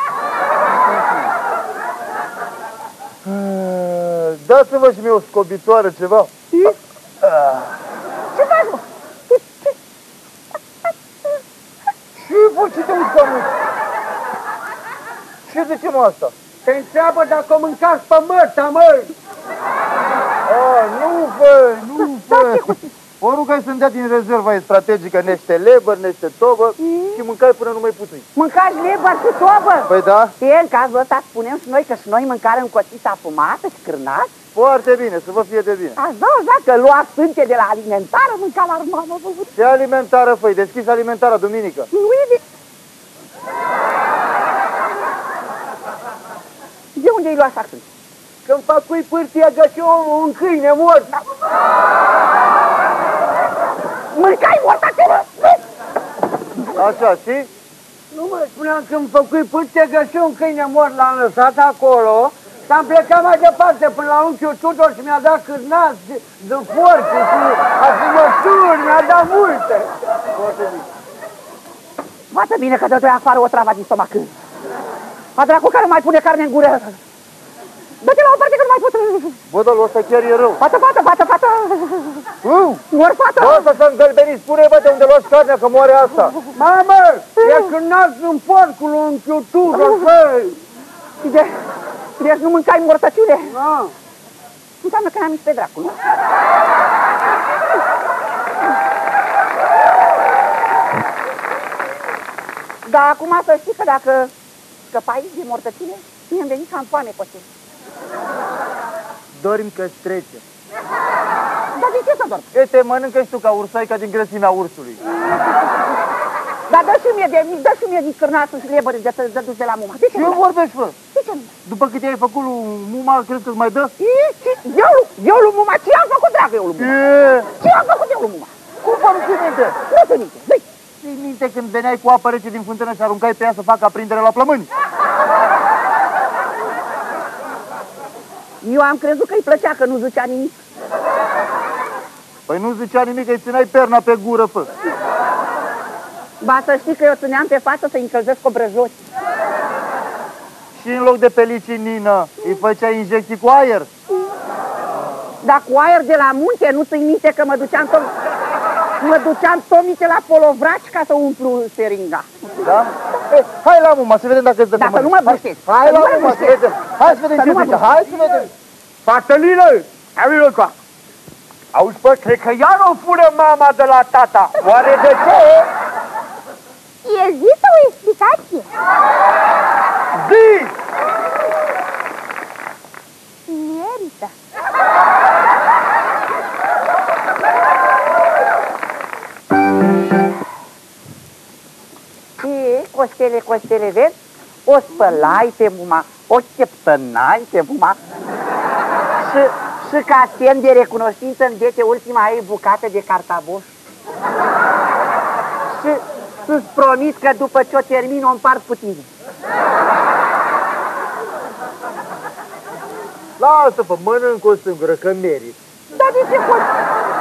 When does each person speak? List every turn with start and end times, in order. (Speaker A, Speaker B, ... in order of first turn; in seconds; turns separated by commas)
Speaker A: 0.8-1.3, Speaker A: 3.2-6.3, Speaker A: 7.2-7.8, Speaker B: 8.3-9.8, Speaker A: 12.2-13.5, Speaker A: 15.4-16.3, Speaker C: 16.6-19.1, Speaker A: 20.4-28.2, Speaker B: 22.3-22.9, Speaker B: 26.8-27.2, Speaker B: 28.3-34.3, Speaker A: 29.9-30.3, Speaker A: 34.5-36.0, Speaker B: 36.0-39.5, Speaker A: 39.5-41.9, Speaker B: 41.9-42.4, Speaker B: 47.0-47.8, Speaker C: 48.5-51.1, Speaker B: 54.1-55.6, Speaker A: 56.7-57.5, Speaker C: 58.1-69.9, Speaker A: 70.3-70.9, Speaker B: 72.3-74.3, Speaker B: 75.3-77.0, Speaker B: 78.0-79.4, Speaker A: 79.5-80.6, Speaker B: 80.6-82.2, Speaker A: 82.4-82.8, Speaker B: 82.9-83.7, Speaker A: 83.3-86.3, Speaker C: 86.5-90.6, Speaker B: 87.4-87.7, Speaker B: 89.7-90.1, Speaker B: 91.2-91.6, Speaker B: 92.2-93.5, Speaker C: 93.5-93.9, Speaker B: 94.8-96.0, Speaker B: 102.8-104.3, Speaker B: 104.9-107.5, Speaker A: 109.3-110.4, Speaker B: 111.7-112.5, Speaker A: 112.5-115.0, Speaker B: 116.7-120.4, Speaker A: 120.1-121.0, Speaker B: 121.1-121.5, Speaker A: 121.6-123.9, Speaker B: 124.0-126.9, Speaker A: 126.8-127.5, Speaker B: 127.5-128.5, Speaker A: 128.8-129.8, Speaker B: 129.9-130.6, Speaker A: 131.0-134.7, Speaker B: 138.6-140.6, Speaker A: 142.5-144.7, Speaker B: 146.4-149.0, Speaker A: 150.7-153.9, Speaker B: 155.4-158.1, Speaker B: 159.0-162.3, Speaker A: 162.6-168.5, Speaker B: 164.8-167.9, Speaker C: 169.1-170.7, Speaker C: 171.7-175.6, Speaker D: 177.0-178.7, Speaker A: 180.1-180.7, Speaker D: 183.5-184.3, Speaker B: 192.4-198.0, Speaker B: 199.2-203.7, Speaker B: 205.7-209.1, Speaker A: 213.4-215.6, Speaker B: 215.9-216.7